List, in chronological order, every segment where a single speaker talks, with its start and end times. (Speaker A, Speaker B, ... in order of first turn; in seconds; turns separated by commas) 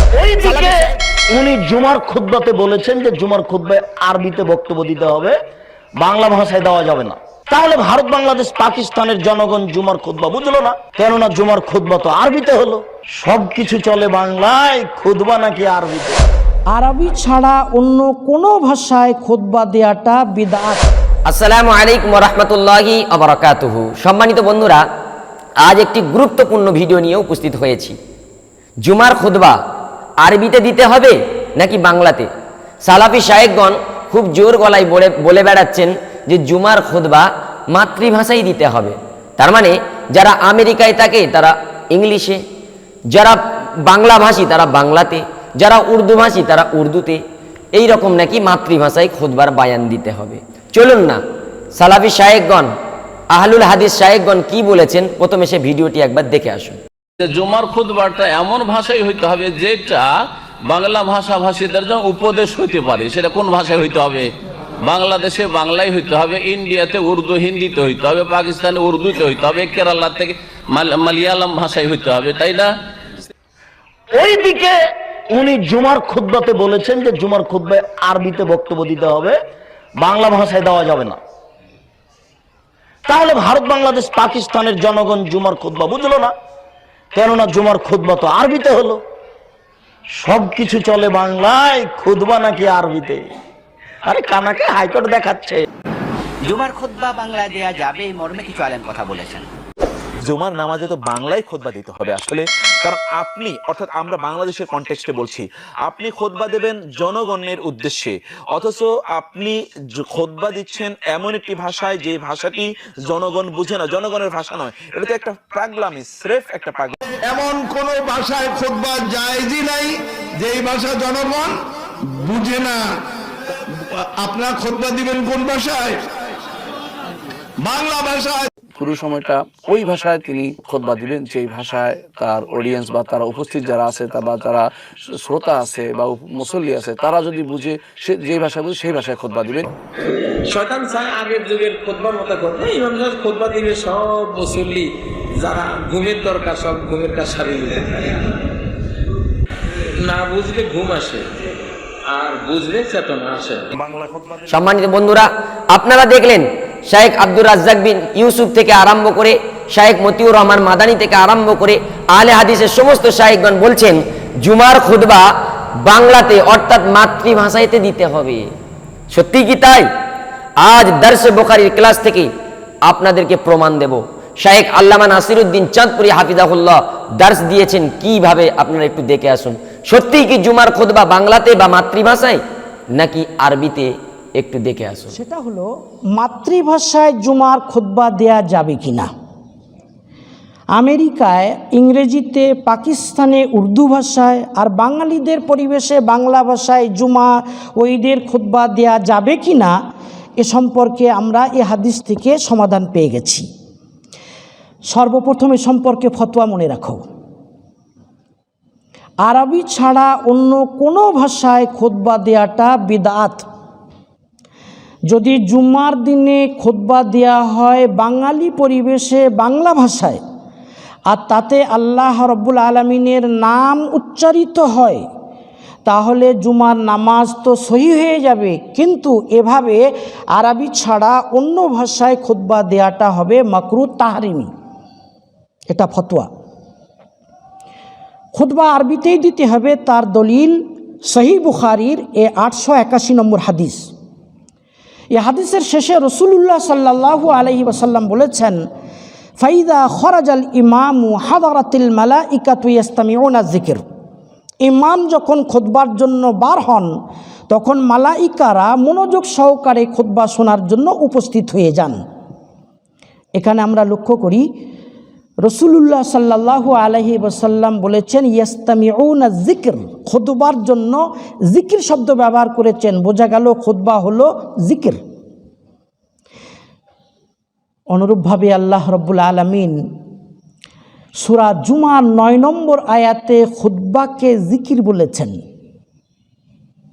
Speaker A: 0.1-5.3, Speaker A: 6.0-16.2, Speaker B: 16.7-20.8, Speaker C: 21.3-24.8, Speaker C: 25.6-27.9, Speaker C: 28.8-29.6, Speaker C: 30.2-32.3, Speaker C: 32.8-42.4, Speaker C: 43.1-47.2, Speaker C: 47.7-51.2, Speaker C: 51.7-52.7, Speaker C: 53.3-56.8, Speaker D: 57.2-64.3, Speaker D: 64.8-72.7, Speaker A: 74.1-74.7, Speaker A: 75.3-79.3, Speaker A: 80.0-81.2, Speaker A: 83.0-86.3, Speaker A: 87.1-89.0, Speaker A: 90.2-93.2, Speaker A: 94.0-95.6, Speaker E: 96.4-99.4, Speaker F: 105.9-108.1, Speaker F: 108.6-115.9, Speaker F: 116.5-116.9, Speaker G: 117.1-121.5, Speaker G: 122.1-122.8, Speaker G: 123.7-126.0, Speaker G: 127.6-128.5, Speaker H: 128.7-139.7, Speaker I: 140.4-148.2, Speaker I: 150.0-151.3, Speaker I: 152.1-153.7, Speaker C: 154.5-165.3, Speaker C: 165.8-168.4, Speaker C: 169.1-169.9, Speaker C: 170.6-172.3, Speaker C: 172.8-182.4, Speaker C: 182.9-185.1, Speaker B: 185.1-189.1, Speaker B: 190.7-199.7, Speaker B: 200.4-203.4, Speaker B: 204.9-207.0, Speaker B: 209.2-213.4, Speaker B: 215.1-220.2, Speaker B: 221.1-225.0, Speaker B: 225.8-234.5, Speaker B: 235.7-236.3, Speaker B: 238.3-243.9, Speaker B: 245.1-248.6, Speaker B: 249.4-253.8, Speaker B: 254.6-256.9, Speaker B: 257.5-262.0, Speaker B: 263.4-264.4, Speaker B: 265.4-275.0, Speaker B: 277.9-279.8, Speaker B: 281.2-285.3